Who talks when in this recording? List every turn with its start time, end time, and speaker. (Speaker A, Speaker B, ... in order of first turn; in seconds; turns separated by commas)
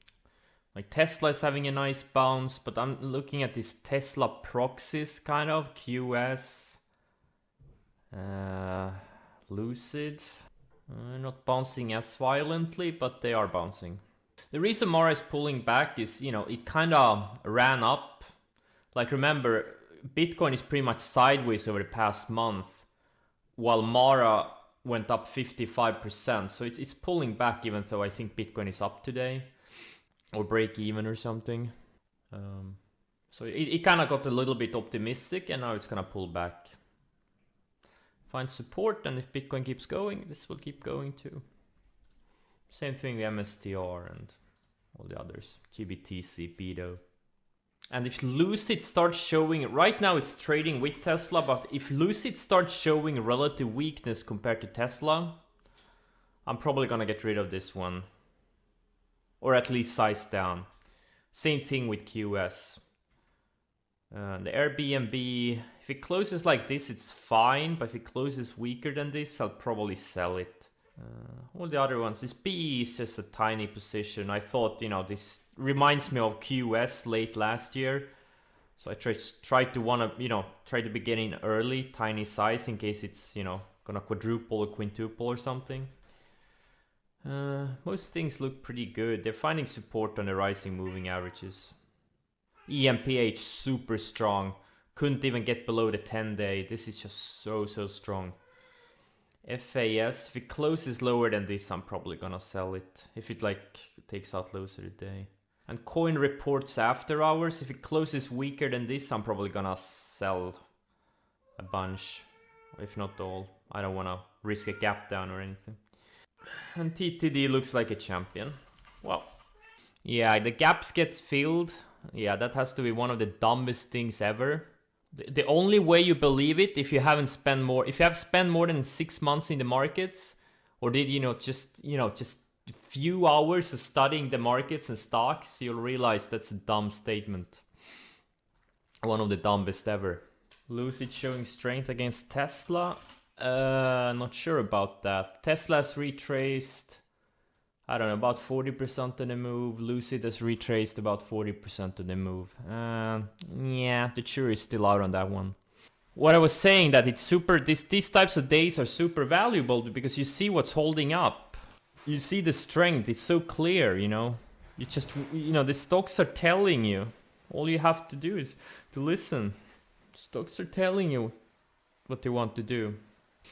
Speaker A: 0.7-6.8, Speaker A: 8.1-10.3, Speaker A: 10.9-18.3, Speaker A: 18.9-22.9, Speaker A: 23.6-29.6, Speaker A: 30.3-31.7, Speaker A: 32.3-36.8, Speaker A: 38.3-41.4, Speaker A: 42.7-44.4, Speaker A: 44.9-47.0, Speaker A: 47.9-55.4, Speaker A: 56.5-58.1, Speaker A: 59.4-60.7, Speaker A: 61.3-62.8, Speaker A: 64.1-78.1, Speaker A: 78.8-85.9, Speaker A: 87.2-91.8, Speaker A: 92.7-98.4, Speaker A: 99.4-110.6, Speaker A: 111.6-115.8, Speaker A: 116.5-119.3, Speaker A: 120.0-137.6, Speaker A: 139.0-147.0, Speaker A: 147.9-155.6, Speaker A: 156.2-169.6, Speaker A: 170.1-171.3, Speaker A: 172.1-173.0